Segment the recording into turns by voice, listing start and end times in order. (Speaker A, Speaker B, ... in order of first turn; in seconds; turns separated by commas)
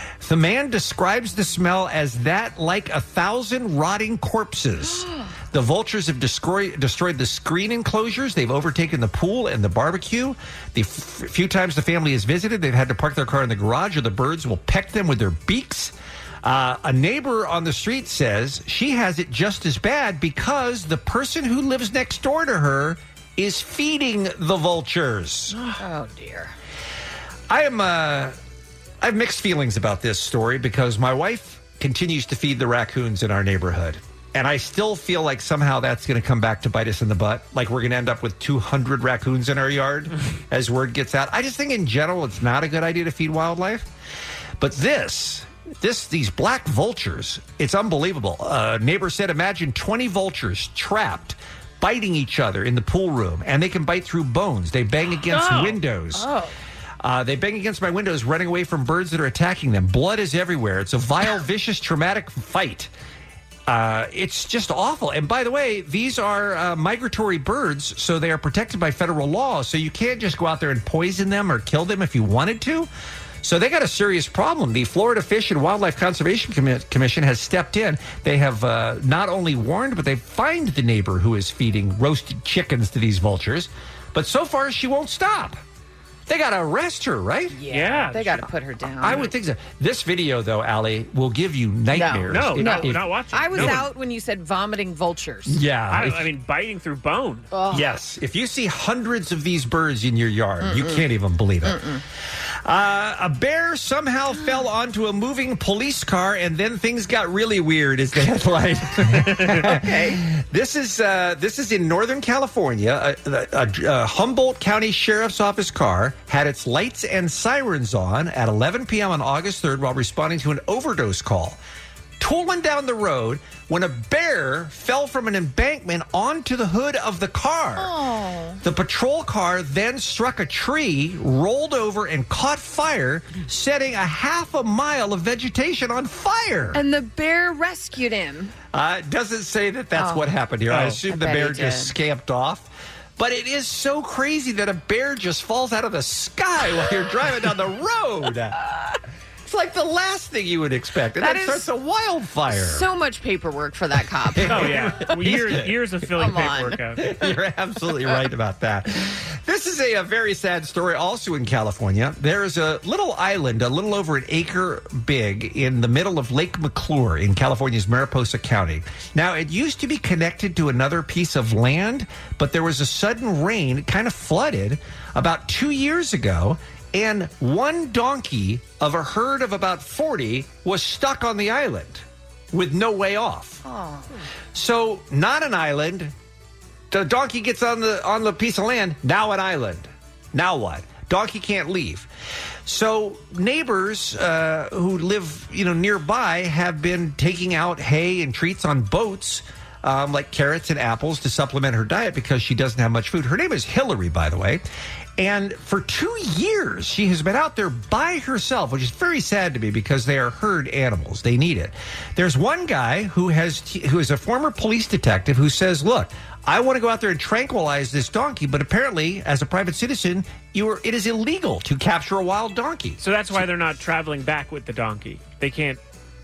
Speaker A: 0.2-25.6, Speaker B: 4.8-5.3, Speaker B: 25.8-26.5, Speaker A: 27.5-28.4, Speaker A: 29.0-43.9, Speaker A: 44.6-56.3, Speaker C: 55.3-55.8, Speaker B: 56.1-56.5, Speaker A: 57.0-62.9, Speaker A: 63.7-72.9, Speaker A: 73.4-85.6, Speaker A: 86.3-87.6, Speaker B: 87.5-89.3, Speaker C: 87.7-88.5, Speaker A: 89.0-93.8, Speaker B: 91.9-95.6, Speaker C: 92.3-93.9, Speaker A: 95.5-96.3, Speaker C: 95.9-97.5, Speaker B: 97.5-97.9, Speaker A: 97.7-101.8, Speaker B: 100.6-101.0, Speaker B: 101.6-102.0, Speaker A: 102.6-121.6, Speaker B: 109.5-110.2, Speaker A: 122.2-127.9, Speaker B: 127.8-128.6, Speaker A: 128.6-136.8, Speaker B: 136.7-138.5, Speaker A: 138.7-148.6, Speaker B: 139.9-141.9, Speaker A: 149.4-152.8, Speaker B: 151.2-151.7, Speaker B: 152.5-154.9, Speaker A: 154.3-155.7, Speaker C: 154.5-157.0, Speaker B: 156.2-156.8, Speaker A: 157.0-183.6, Speaker B: 183.6-184.2, Speaker A: 184.5-186.1, Speaker A: 186.9-192.1, Speaker A: 192.6-204.6, Speaker A: 205.2-223.4, Speaker C: 223.0-225.8